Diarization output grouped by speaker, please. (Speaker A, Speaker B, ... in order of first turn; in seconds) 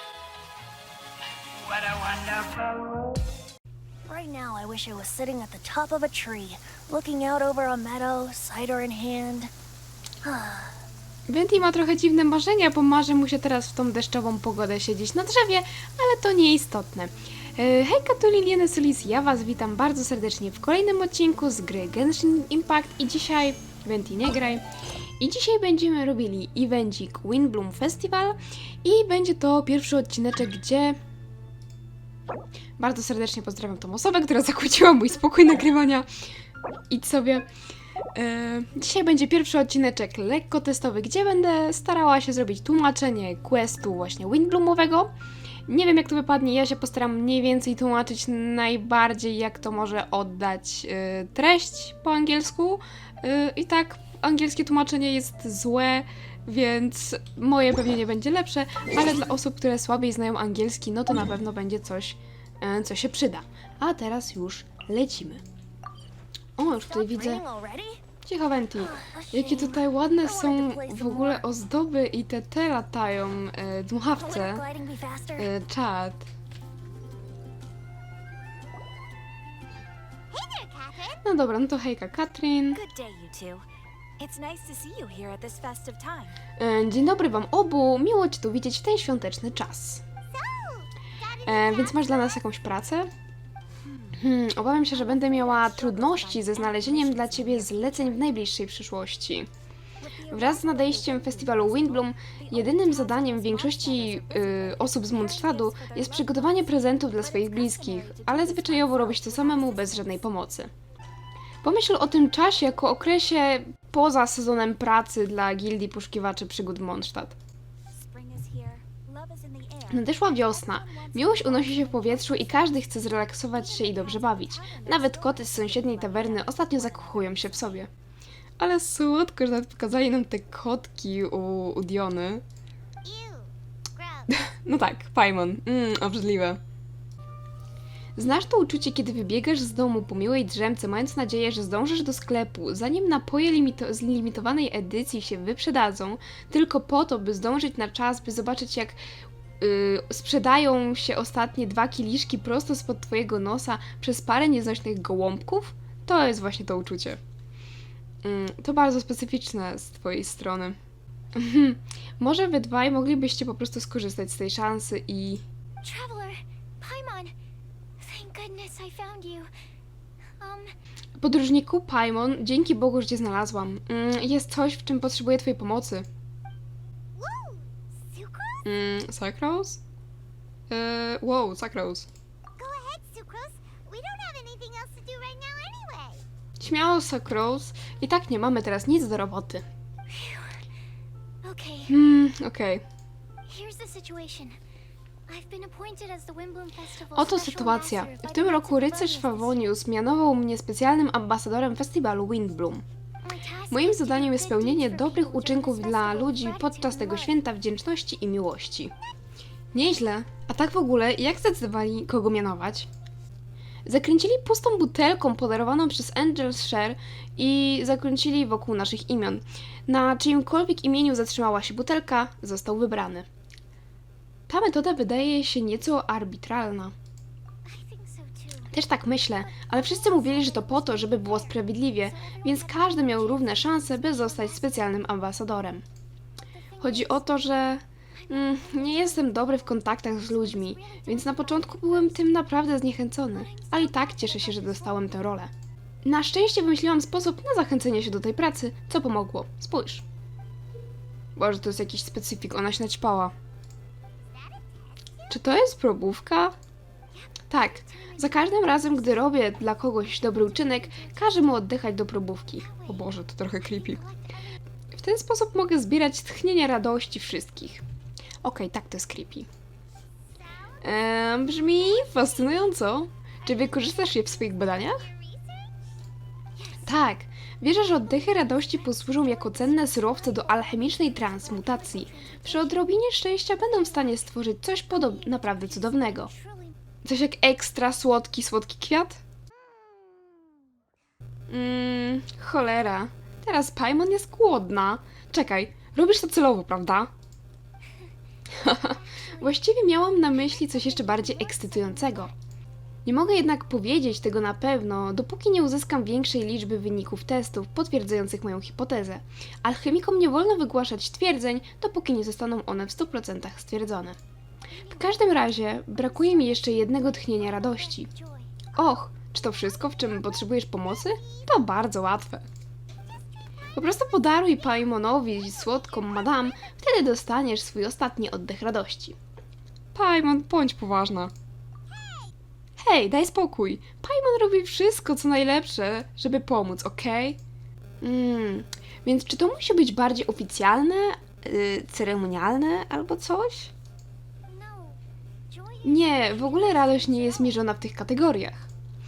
Speaker A: 1.6-3.2, 4.1-9.5, 10.2-10.8, 66.7-68.0, 68.8-71.4, 74.2-75.5, 82.7-83.7, 84.2-86.4, 93.8-94.2, 94.9-98.2, 100.0-110.2, 117.9-122.4, 123.6-127.9
Speaker B: 11.3-24.6, 25.2-31.0, 32.8-36.1, 36.9-37.5, 38.1-45.1, 45.7-65.4, 66.6-67.5, 68.2-74.7, 75.4-76.3, 81.2-82.8, 86.6-90.0, 91.5-93.1, 94.2-99.5, 100.3-110.7, 111.6-117.4, 119.9-127.9, 128.6-132.4, 134.3-136.6, 138.2-149.0, 149.6-157.2, 158.2-160.8, 161.3-165.4, 171.2-176.1, 178.6-179.8, 180.7-182.1, 186.6-189.7, 191.9-192.8, 197.1-202.8, 203.7-208.9, 209.7-212.9, 213.8-223.3, 224.5-226.9, 228.7-235.8, 236.8-245.5, 246.0-250.0, 251.3-253.3, 255.3-256.6, 257.5-264.0, 264.9-267.8, 268.4-269.5, 270.8-275.1, 276.9-286.3, 287.0-289.2, 291.5-297.1, 298.5-302.3, 303.1-314.2, 314.9-318.1, 318.8-322.5, 323.8-329.2, 329.9-331.3, 332.8-337.4, 338.0-343.7, 345.8-348.7
Speaker C: 80.3-81.2, 90.3-92.4, 133.0-134.3, 165.8-167.3, 168.0-169.5, 170.4-170.7, 177.1-178.7, 182.6-186.2, 190.1-190.6, 191.4-191.9, 193.5-194.6, 195.3-199.7, 203.2-207.3, 227.7-228.7, 229.4-235.0, 236.5-237.2, 238.1-242.3, 243.3-245.2, 254.2-254.9, 257.1-259.5, 260.4-261.4, 262.6-264.5, 270.4-270.8, 271.8-272.8, 273.5-275.7, 276.6-277.0, 277.9-282.9, 283.5-284.2, 284.9-286.8, 289.6-290.7, 298.6-302.3, 314.7-318.8, 319.8-320.4, 321.2-321.5, 323.7-326.7, 331.9-332.3, 344.5-345.0, 345.5-347.6